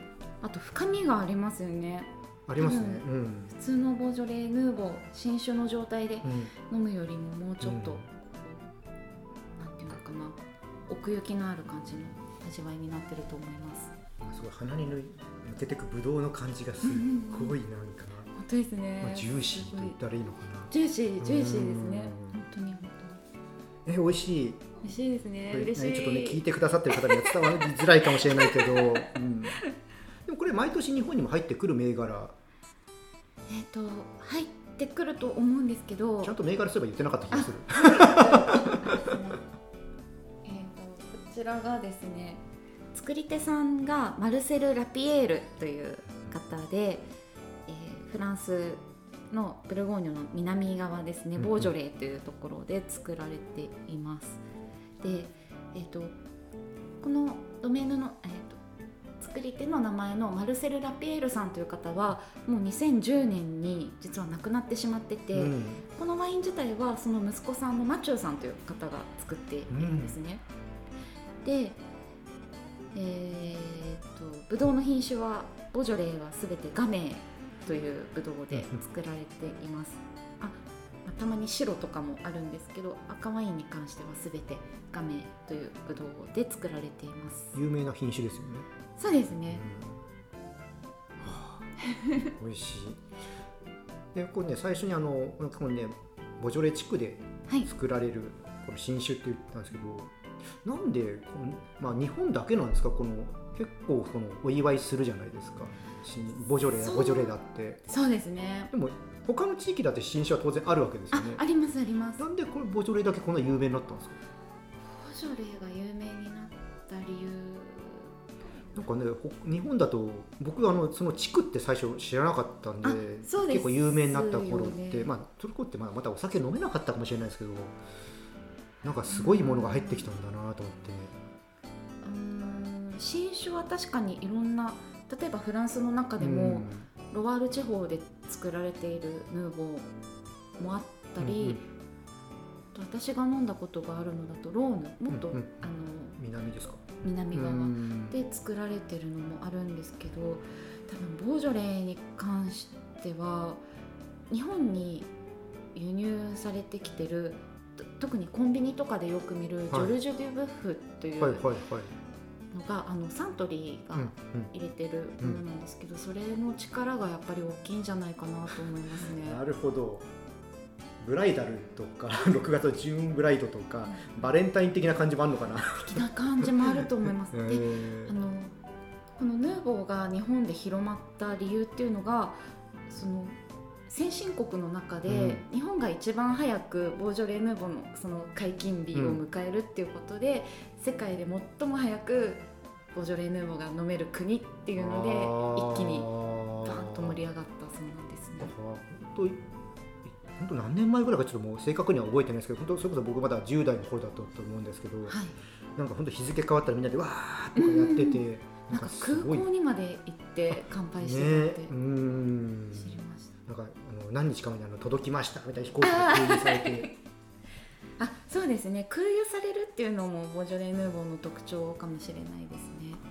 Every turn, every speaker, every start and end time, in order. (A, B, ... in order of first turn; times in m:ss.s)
0:00.4-0:08.6 A
0:02.5-0:03.5 B
0:06.2-0:06.5 B
0:07.6-0:08.0 B
0:09.6-0:13.9 A
0:14.2-0:18.3 B
0:16.8-0:17.6 A
0:18.3-0:20.0 A
0:19.0-0:22.4 B
0:20.7-0:23.2 A
0:23.8-0:24.7 B
0:24.8-0:29.1 A
0:25.5-0:29.6 B
0:30.2-0:32.4 B
0:33.5-0:36.3 A
0:36.2-0:39.0 B
0:37.3-0:39.4 A
0:40.4-0:47.1 A
0:47.7-0:54.4 A
0:51.4-0:51.7 B
0:55.0-0:56.2 A
0:57.0-0:58.6 A
0:59.2-1:10.4 A
1:05.3-1:05.8 B
1:09.7-1:10.2 B
1:11.4-1:11.8 A
1:12.9-1:27.6 A
1:18.5-1:18.8 B
1:27.5-1:28.6 B
1:29.0-1:29.6 A
1:29.5-1:30.0 B
1:31.2-1:33.0 B
1:31.8-1:32.3 A
1:34.1-1:40.1 B
1:40.6-1:47.8 B
1:46.8-1:47.3 A
1:47.9-1:48.7 A
1:48.7-1:51.4 B
1:51.1-1:52.2 A
1:52.2-1:54.2 B
1:54.8-1:58.1 A
1:58.7-2:07.8 B
2:02.8-2:05.1 A
2:08.8-2:11.1 B
2:09.1-2:10.1 A
2:12.0-2:19.9 A
2:16.2-2:16.9 B
2:20.6-2:21.6 A
2:21.2-2:21.6 B
2:22.7-2:26.2 A
2:25.1-2:25.5 B
2:26.2-2:28.2 B
2:27.0-2:33.6 A
2:34.3-2:35.1 A
2:35.7-2:41.5 A
2:41.2-2:41.9 B
2:42.5-2:49.4 A
2:43.9-2:44.5 B
2:49.0-2:50.1 B
2:51.0-2:58.1 B
2:53.9-2:54.3 A
2:55.7-2:58.5 A
2:59.2-3:18.5 A
3:05.1-3:05.4 B
3:08.9-3:09.2 B
3:14.8-3:17.2 B
3:18.4-3:19.4 B
3:20.1-3:25.2 B
3:25.1-3:25.4 A
3:25.8-3:29.4 B
3:27.6-3:31.7 A
3:30.5-3:36.9 B
3:32.7-3:33.3 A
3:35.8-3:37.0 A
3:38.0-3:43.0 A